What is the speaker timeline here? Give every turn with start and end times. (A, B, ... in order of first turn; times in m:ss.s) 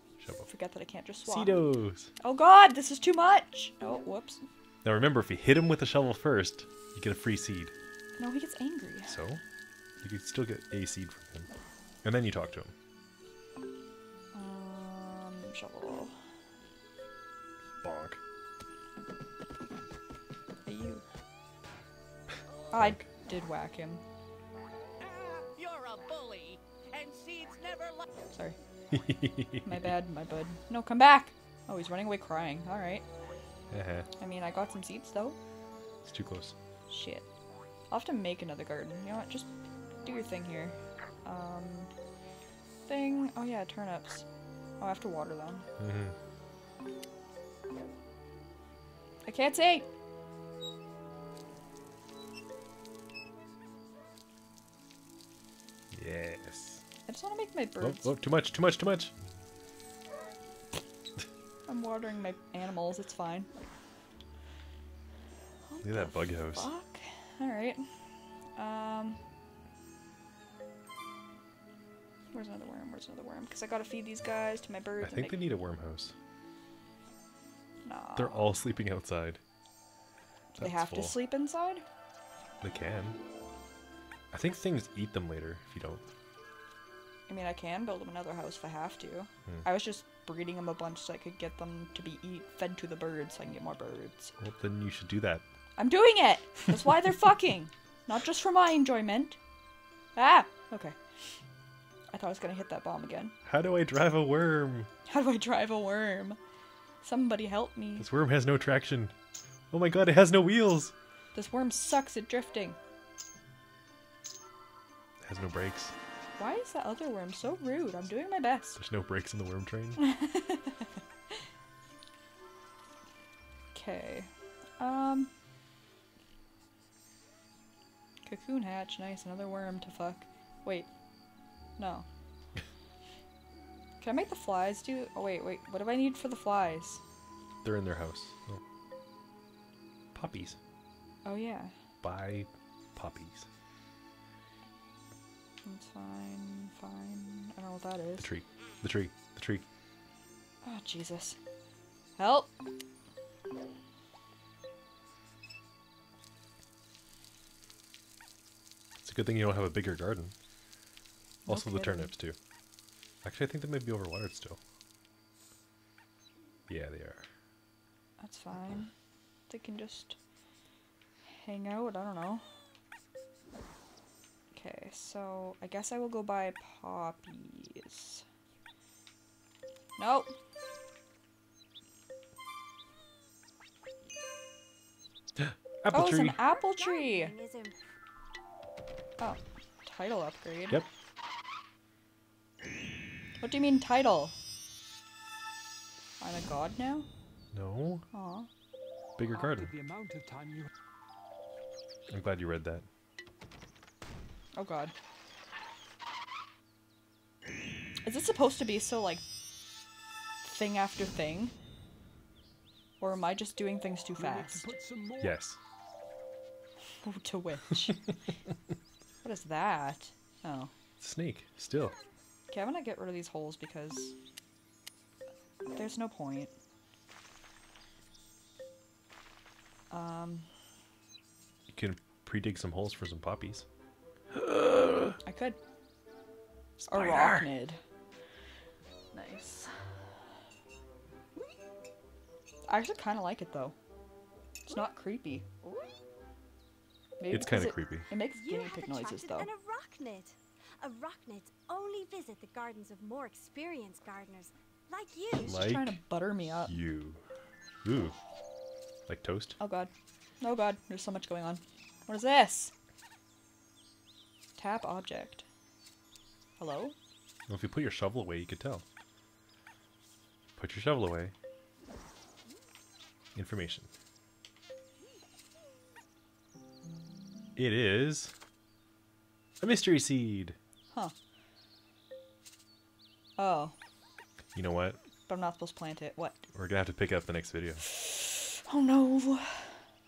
0:00.2-0:00.5 A
0:00.5-0:01.6 B
0:01.2-0:02.1 A
0:02.2-0:04.5 B
0:04.8-0:07.7 A
0:08.2-0:09.2 B
0:09.1-0:09.4 A
0:10.0-0:11.5 A
0:12.0-0:12.7 A
0:14.3-0:16.1 B
0:17.8-0:18.2 A
0:20.6-0:21.0 B
0:22.7-0:24.0 B
0:22.7-0:23.1 A
0:25.0-0:28.1 C
0:28.3-0:28.6 B
0:28.9-0:29.9 A
0:29.6-0:33.0 B
0:33.7-0:34.1 A
0:34.2-0:35.4 B
0:36.0-0:36.5 A
0:36.9-0:37.2 B
0:37.9-0:39.5 B
0:40.0-0:41.9 B
0:42.9-0:44.2 B
0:44.8-0:45.6 B
0:45.8-0:46.2 A
0:49.2-0:49.8 B
0:55.9-0:56.8 A
0:57.0-0:58.1 B
0:57.8-0:59.1 A
1:01.7-1:03.5 B
1:05.7-1:07.9 B
1:05.8-1:06.7 A
1:08.6-1:09.2 B
1:12.3-1:15.5 B
1:15.0-1:16.1 A
1:17.8-1:18.5 B
1:18.2-1:19.4 A
1:20.5-1:21.8 B
1:20.6-1:21.2 A
1:22.6-1:23.2 A
1:24.3-1:26.0 A
1:27.3-1:34.3 B
1:34.4-1:35.4 A
1:35.8-1:39.4 B
1:40.1-1:41.0 B
1:42.1-1:43.3 B
1:43.4-1:44.9 A
1:45.1-1:46.4 B
1:47.0-1:48.1 B
1:48.0-1:49.1 A
1:49.7-1:50.9 A
1:51.3-1:52.8 B
1:55.2-1:55.9 A
1:56.4-1:58.8 B
1:58.8-2:00.0 A
2:00.0-2:00.9 B
2:03.7-2:05.3 B
2:08.2-2:10.9 B
2:11.8-2:12.0 B
2:14.0-2:17.0 B
2:17.6-2:18.6 A
2:20.1-2:20.6 A
2:21.2-2:21.7 B
2:22.0-2:23.4 A
2:25.6-2:28.3 B
2:28.2-2:29.6 A
2:30.6-2:31.4 B
2:32.2-2:32.5 B
2:39.0-2:40.3 A
2:41.4-2:42.1 B
2:41.5-2:42.4 A
2:43.2-2:44.6 A
2:46.7-2:47.3 A
2:48.2-2:48.9 B
2:49.5-2:50.2 B
2:51.2-2:52.4 B
2:54.5-2:58.2 B
3:00.0-3:00.3 B
3:05.4-3:06.4 A
3:05.9-3:07.3 B
3:06.4-3:07.8 D
3:09.2-3:10.8 B
3:13.4-3:14.3 B
3:16.2-3:17.1 B
3:17.5-3:18.0 A
3:18.1-3:18.5 B
3:19.2-3:19.7 A
3:19.3-3:20.7 E
3:22.1-3:22.8 A
3:24.5-3:24.9 B
3:28.0-3:29.2 B
3:30.4-3:31.5 B
3:33.0-3:34.6 B
3:34.2-3:35.4 E
3:35.2-3:35.6 A
3:37.0-3:38.0 B
3:39.2-3:40.7 B
3:41.0-3:42.0 A
3:42.5-3:44.1 B
3:45.7-3:46.5 B
3:49.9-3:50.5 B
3:51.7-3:53.6 A
3:54.3-3:55.2 A
3:55.2-3:55.6 B
3:56.8-3:57.5 A
3:56.9-3:57.8 B
3:59.1-3:59.7 B
4:02.7-4:03.7 B
4:04.7-4:05.4 B
4:07.2-4:09.5 B
4:07.3-4:08.1 A
4:08.3-4:15.6 D
4:15.4-4:16.8 B
4:15.4-4:16.0 A
4:16.6-4:17.2 A
4:17.8-4:18.2 A
4:19.1-4:19.6 A
4:19.6-4:22.7 B
4:24.6-4:25.4 B
4:26.6-4:27.0 B
4:27.5-4:28.8 A
4:30.6-4:31.3 A
4:33.3-4:33.9 A
4:37.6-4:38.3 A
4:39.6-4:40.6 A
4:43.4-4:43.7 B
4:44.5-4:45.0 A
4:45.3-4:46.5 B
4:46.5-4:47.8 A
4:48.0-4:49.8 B